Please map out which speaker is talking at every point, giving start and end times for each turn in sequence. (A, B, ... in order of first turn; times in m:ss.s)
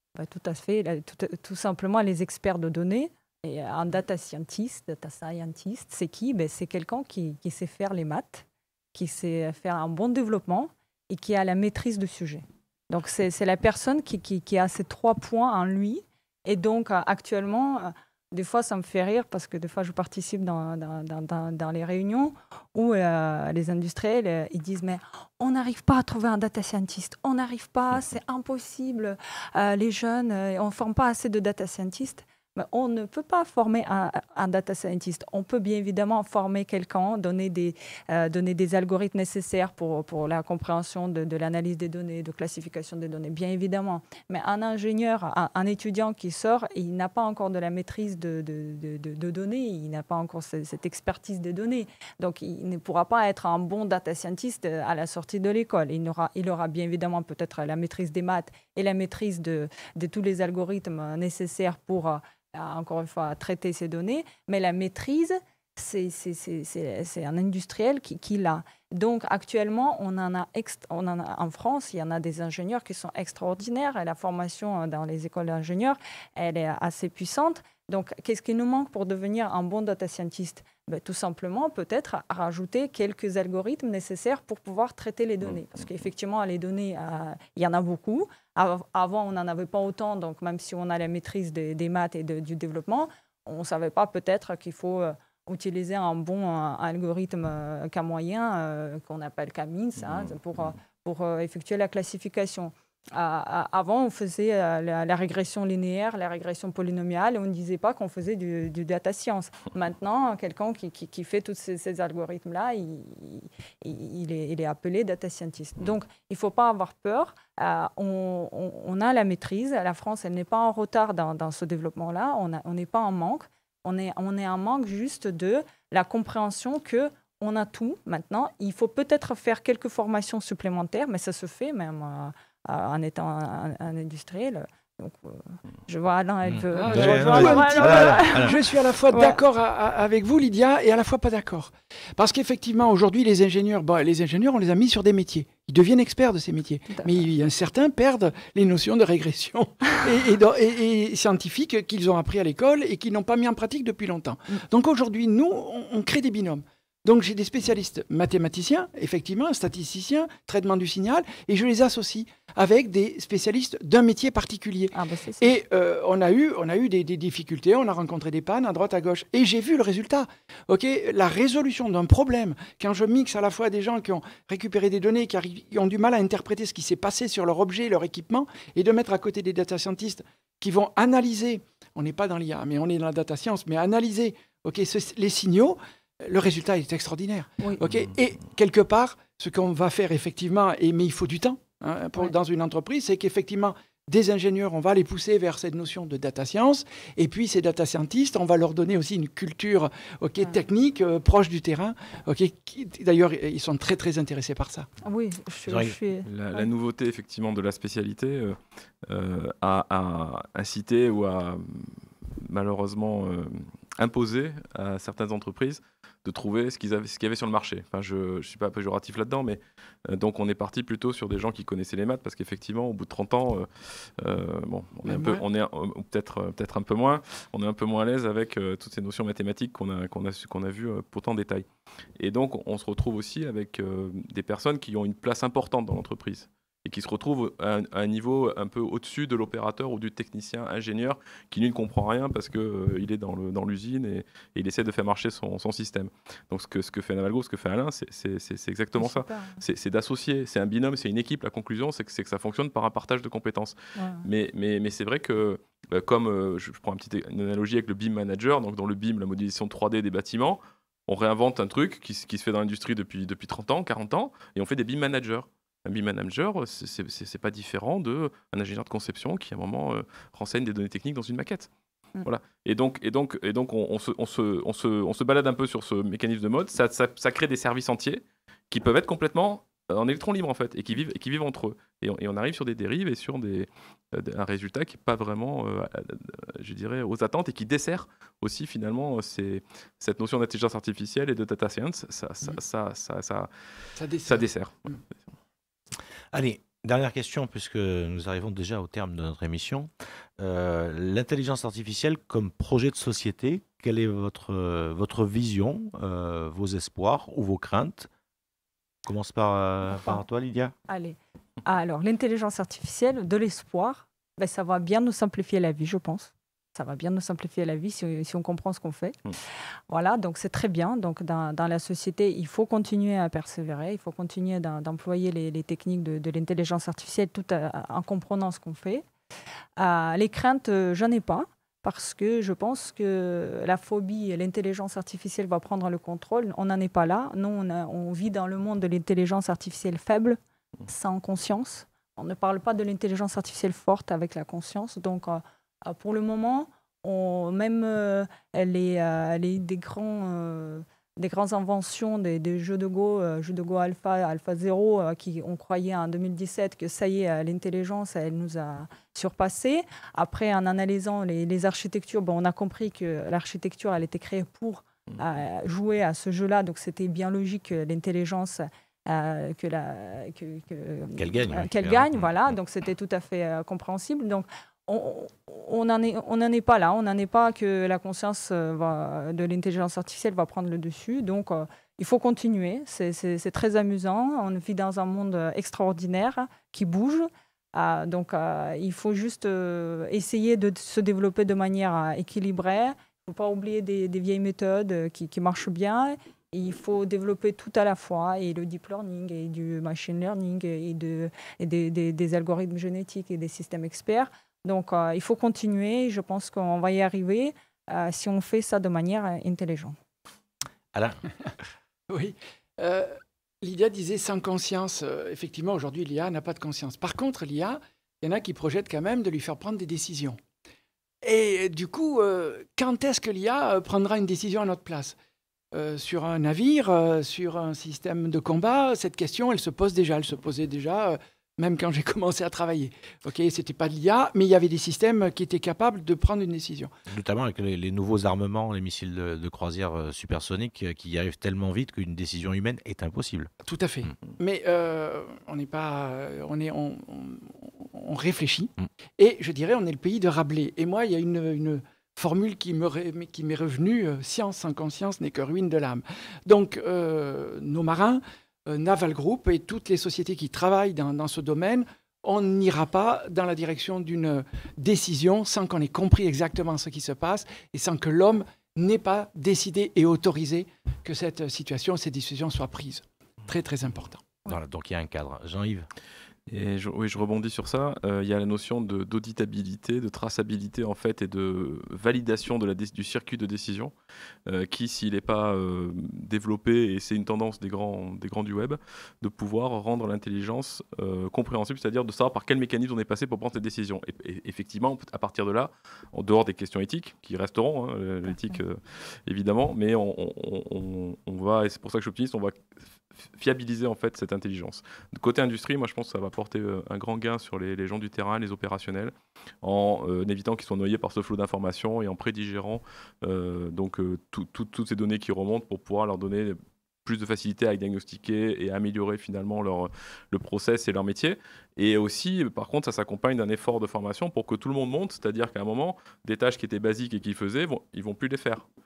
0:00.2-2:19.4 A
2:16.4-2:18.6 B
2:16.7-3:24.9 C
2:26.9-2:27.3 A
2:44.9-2:45.5 A
3:07.6-3:07.8 A
3:25.0-3:26.7 A
3:25.7-3:26.0 B
3:26.2-3:51.7 D
3:45.0-3:45.4 C
3:52.2-4:31.7 D
4:09.0-4:09.6 A
4:14.0-4:14.3 A
4:32.2-4:53.5 D
4:54.0-4:55.0 C
4:54.2-4:54.9 D
4:56.3-5:08.1 B
5:09.1-5:10.8 B
5:09.9-5:10.2 A
5:10.9-5:19.2 A
5:19.9-5:29.1 A
5:29.8-6:50.0 A
6:11.2-6:12.3 B
6:50.9-6:51.2 B
6:52.1-7:00.4 C
7:01.2-7:05.2 C
7:05.7-7:16.9 C
7:17.1-7:23.5 B
7:23.6-7:54.3 C
7:54.5-7:55.9 B
7:56.5-8:03.9 D
8:04.5-8:22.6 D
8:23.1-8:48.7 D